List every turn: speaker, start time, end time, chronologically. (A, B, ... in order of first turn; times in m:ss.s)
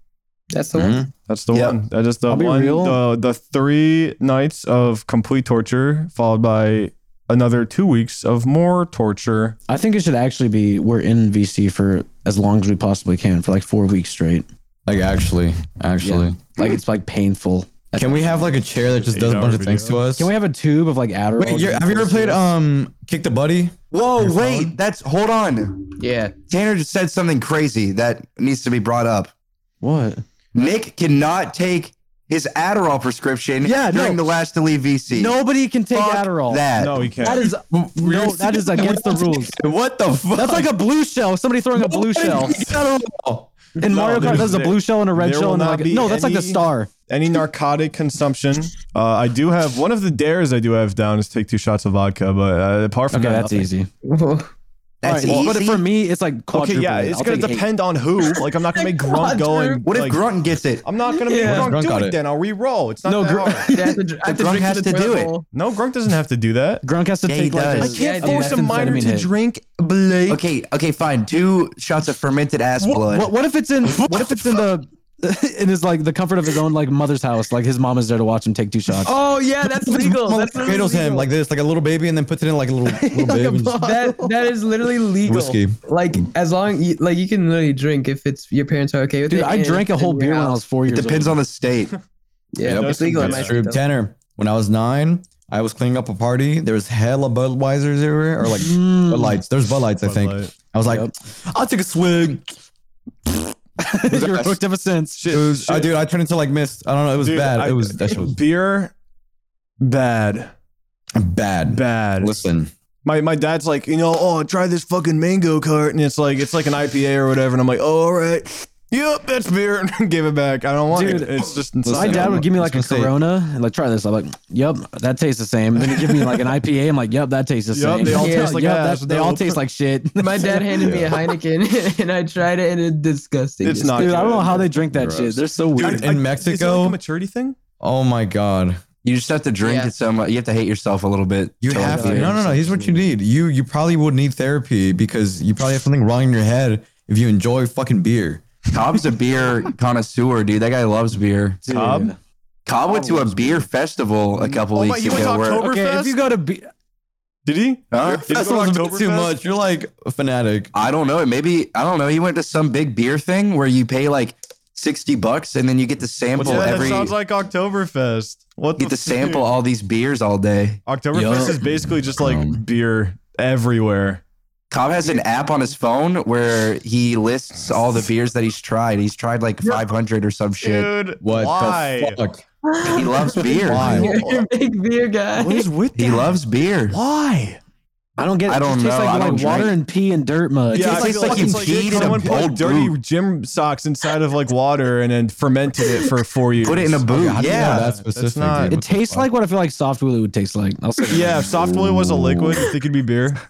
0:00.5-0:01.0 A
0:00.7-0:01.1 B
0:01.3-0:09.6 C
0:01.5-0:01.8 D
0:02.3-0:03.0 E
0:09.7-0:14.5 E
0:14.9-0:16.4 B
0:16.0-0:18.5 E
0:18.0-0:20.3 B
0:19.0-0:20.0 C
0:20.2-0:22.5 E
0:21.4-0:23.8 B
0:23.9-0:25.9 D
0:26.0-0:26.3 A
0:26.5-0:29.3 D
0:29.8-0:30.2 E
0:30.5-0:35.4 D
0:33.6-0:34.3 E
0:35.1-0:36.7 E
0:35.9-0:37.1 D
0:36.8-0:37.5 C
0:37.2-0:39.6 E
0:37.4-0:40.8 B
0:40.3-0:42.6 E
0:41.8-0:43.5 B
0:43.8-0:46.9 E
0:43.8-0:53.7 C
0:44.2-0:44.5 B
0:53.1-0:53.9 E
0:54.0-0:54.5 A
0:55.0-0:55.8 D
0:55.0-0:57.7 E
0:56.5-1:00.2 C
0:58.8-0:59.8 A
0:59.8-1:00.8 D
1:00.8-1:03.7 C
1:01.1-1:01.7 A
1:01.4-1:02.2 B
1:03.0-1:04.0 E
1:03.7-1:05.4 A
1:04.2-1:05.3 D
1:05.5-1:06.8 C
1:06.8-1:09.3 E
1:07.3-1:08.0 D
1:07.8-1:09.0 A
1:07.9-1:10.4 C
1:10.3-1:13.3 D
1:12.8-1:19.2 E
1:19.0-1:21.3 A
1:19.0-1:23.8 B
1:22.9-1:24.5 E
1:23.8-1:30.6 A
1:25.3-1:25.8 B
1:29.3-1:31.4 E
1:30.9-1:31.9 D
1:32.5-1:33.8 A
1:32.6-1:33.6 C
1:32.6-1:42.5 B
1:38.6-1:39.4 E
1:40.0-1:40.5 C
1:40.9-1:41.1 E
1:43.3-1:43.5 B
1:43.8-1:45.2 E
1:44.1-1:44.6 B
1:45.2-1:45.9 C
1:45.3-1:48.4 B
1:47.2-1:48.9 C
1:49.8-1:50.5 C
1:51.2-1:52.7 B
1:51.6-1:52.3 C
1:53.0-2:02.5 C
2:00.9-2:11.2 E
2:01.8-2:03.1 B
2:07.7-2:09.6 C
2:08.1-2:08.6 A
2:10.2-2:14.1 A
2:10.8-2:11.2 B
2:13.6-2:14.7 C
2:14.0-2:16.1 E
2:14.9-2:17.0 B
2:15.8-2:17.6 C
2:17.8-2:18.8 B
2:19.0-2:22.4 D
2:19.6-2:19.9 A
2:21.6-2:28.4 B
2:21.7-2:23.1 E
2:28.7-2:31.6 D
2:31.6-2:32.2 E
2:31.7-2:32.1 C
2:32.7-2:35.7 D
2:32.9-2:33.6 E
2:34.5-2:36.2 C
2:35.6-2:36.7 E
2:37.5-2:39.3 C
2:37.9-2:38.2 D
2:38.0-2:40.7 B
2:40.7-2:47.1 D
2:46.4-2:49.4 C
2:46.4-2:47.0 B
2:48.8-2:50.8 D
2:50.9-2:54.2 C
2:51.1-2:52.6 B
2:54.7-3:00.9 D
3:00.6-3:02.2 C
3:01.2-3:02.4 B
3:02.6-3:05.7 A
3:02.8-3:04.1 D
3:03.3-3:04.5 C
3:03.8-3:04.1 B
3:05.4-3:06.4 C
3:06.0-3:07.0 D
3:06.9-3:07.6 C
3:08.2-3:11.2 E
3:08.5-3:09.8 D
3:10.7-3:18.8 C
3:10.8-3:13.0 D
3:10.8-3:12.1 B
3:16.6-3:17.9 D
3:17.1-3:19.3 B
3:18.7-3:21.6 E
3:21.1-3:23.4 C
3:21.3-3:22.7 B